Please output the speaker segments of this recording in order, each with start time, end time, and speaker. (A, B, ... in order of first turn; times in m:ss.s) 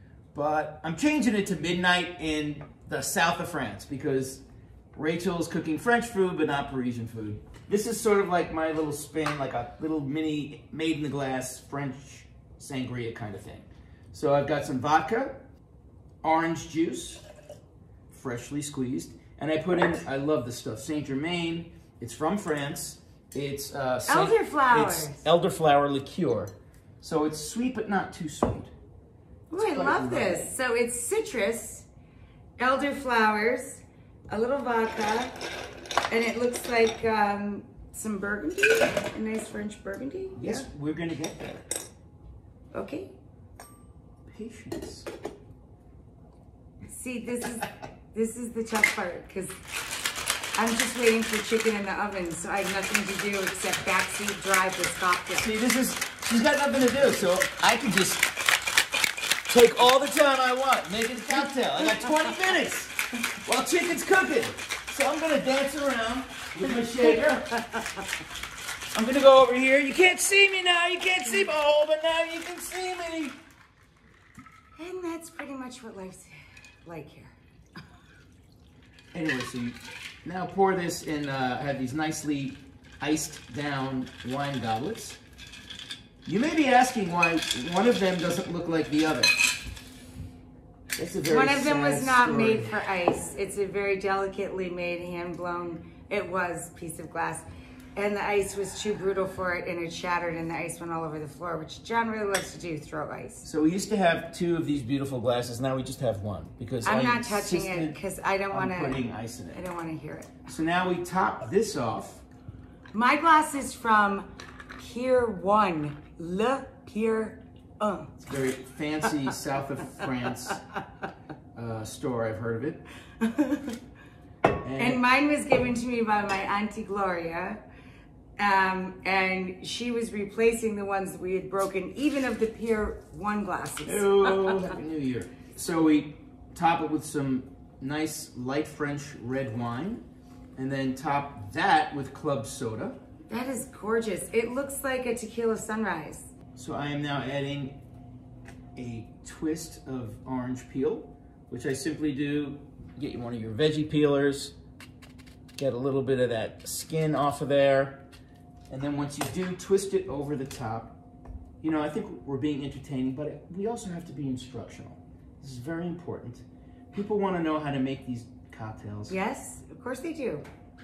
0:00.3-0:04.4 A
0:04.9-0:15.4 A
0:16.2-0:17.2 A
0:18.1-0:28.7 A
0:24.1-0:25.2 B
0:29.5-0:31.9 B
0:29.5-0:30.5 A
0:32.6-0:35.4 B
0:36.1-0:40.7 B
0:40.4-0:41.6 A
0:42.7-0:43.1 B
0:44.3-0:45.1 A
0:46.9-0:49.6 B
0:50.6-0:55.5 B
0:55.4-0:58.3 A
0:59.5-1:07.5 A
1:07.0-1:07.9 B
1:08.9-1:13.4 A
1:14.8-1:17.4 B
1:19.1-1:25.2 A
1:26.2-1:29.4 A
1:31.0-1:32.8 A
1:31.3-1:43.5 B
1:43.4-1:48.0 A
1:46.8-1:50.3 B
1:48.5-1:49.6 A
1:50.5-1:52.2 A
1:52.9-1:58.1 B
1:58.2-2:00.6 A
2:01.6-2:02.8 A
2:03.2-2:03.8 B
2:04.6-2:05.0 A
2:04.8-2:07.6 B
2:08.4-2:14.7 B
2:13.8-2:20.0 A
2:20.6-2:23.0 A
2:23.3-2:26.3 B
2:26.6-2:27.8 A
2:28.8-2:34.6 A
2:35.6-2:38.0 A
2:38.7-2:41.0 A
2:41.6-2:49.2 A
2:49.1-2:50.5 B